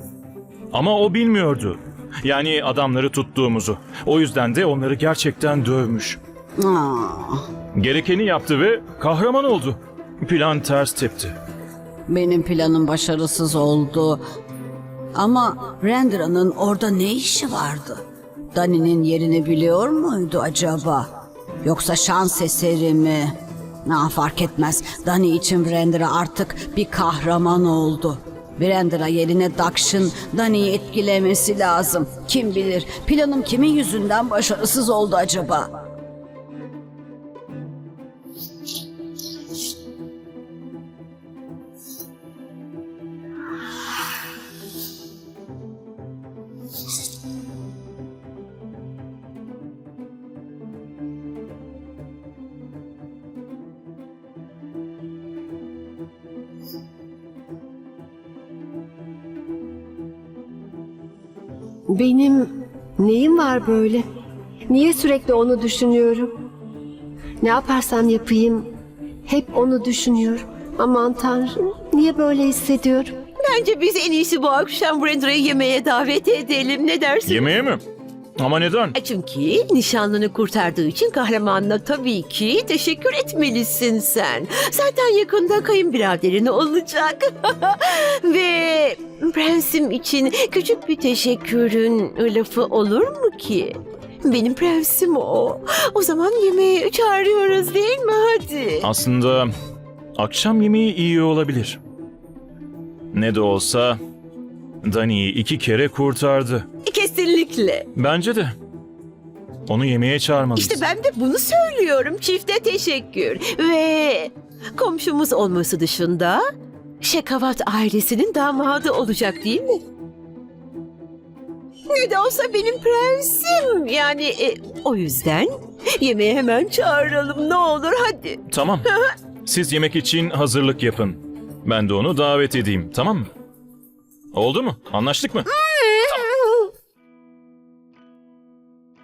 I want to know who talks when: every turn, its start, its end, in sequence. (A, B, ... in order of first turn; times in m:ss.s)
0:00.7-0:06.2 A
0:06.6-0:07.4 B
0:07.7-0:11.4 A
0:12.1-0:14.2 B
0:15.1-0:18.0 B
0:18.5-0:21.1 B
0:21.6-0:35.8 B
1:01.9-1:04.0 C
1:04.7-1:06.3 C
1:07.4-1:08.7 C
1:09.3-1:13.2 C
1:13.4-1:17.5 D
1:17.2-1:17.8 A
1:18.4-1:19.0 A
1:19.0-1:38.9 D
1:38.8-1:39.5 A
1:40.2-1:41.8 A
1:43.1-1:44.0 A
1:44.8-1:46.6 A
1:46.8-1:47.9 D
1:47.9-1:48.5 A
1:49.7-1:50.8 A
1:50.6-1:56.4 D
1:57.0-1:59.8 D
2:01.9-2:09.1 D
2:08.5-2:08.9 A
2:09.4-2:13.3 A
2:14.3-2:15.5 A
2:15.5-2:16.1 D